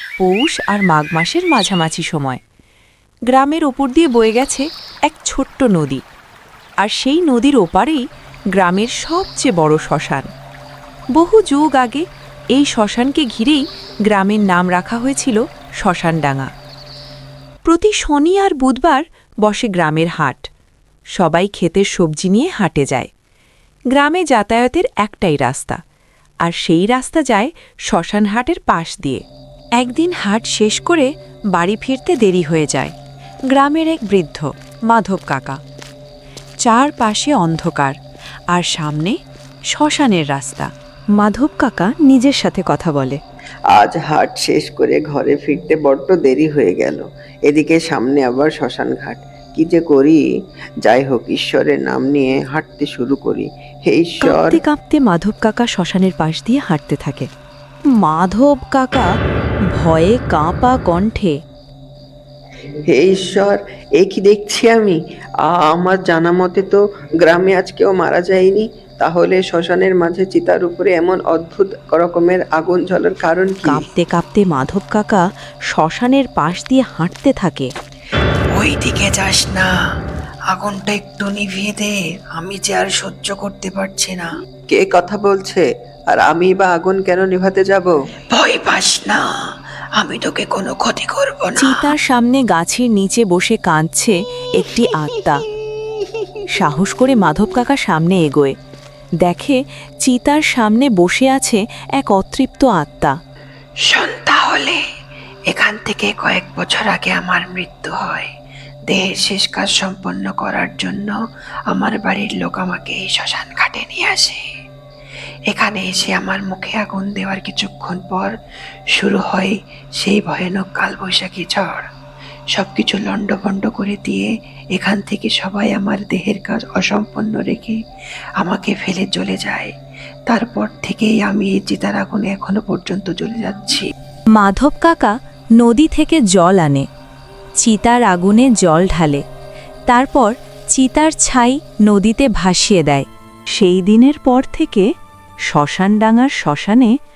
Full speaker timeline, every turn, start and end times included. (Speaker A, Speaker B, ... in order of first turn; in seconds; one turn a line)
Speaker A: 0.2-2.4
Speaker A: 3.3-6.0
Speaker A: 6.8-8.0
Speaker A: 8.5-10.3
Speaker A: 11.2-16.5
Speaker A: 17.6-20.5
Speaker A: 21.2-23.1
Speaker A: 23.9-25.8
Speaker A: 26.4-29.2
Speaker A: 29.8-32.9
Speaker A: 33.5-35.6
Speaker A: 36.6-38.0
Speaker A: 38.5-39.2
Speaker A: 39.7-43.2
Speaker B: 43.7-50.2
Speaker B: 50.8-54.6
Speaker A: 54.2-57.3
Speaker A: 58.0-59.1
Speaker A: 59.7-61.4
Speaker B: 62.9-73.8
Speaker A: 73.7-77.7
Speaker C: 78.5-79.7
Speaker C: 80.5-84.3
Speaker B: 84.7-87.9
Speaker C: 88.3-89.2
Speaker C: 90.0-91.9
Speaker A: 91.6-95.5
Speaker A: 96.6-98.5
Speaker A: 99.2-103.2
Speaker C: 103.9-104.8
Speaker C: 105.5-108.3
Speaker C: 108.9-111.2
Speaker C: 111.7-114.5
Speaker C: 115.5-118.3
Speaker C: 118.9-121.9
Speaker C: 122.5-127.8
Speaker C: 128.4-129.7
Speaker C: 130.3-133.9
Speaker A: 134.4-136.9
Speaker A: 137.6-139.2
Speaker A: 139.9-144.9
Speaker A: 145.5-146.9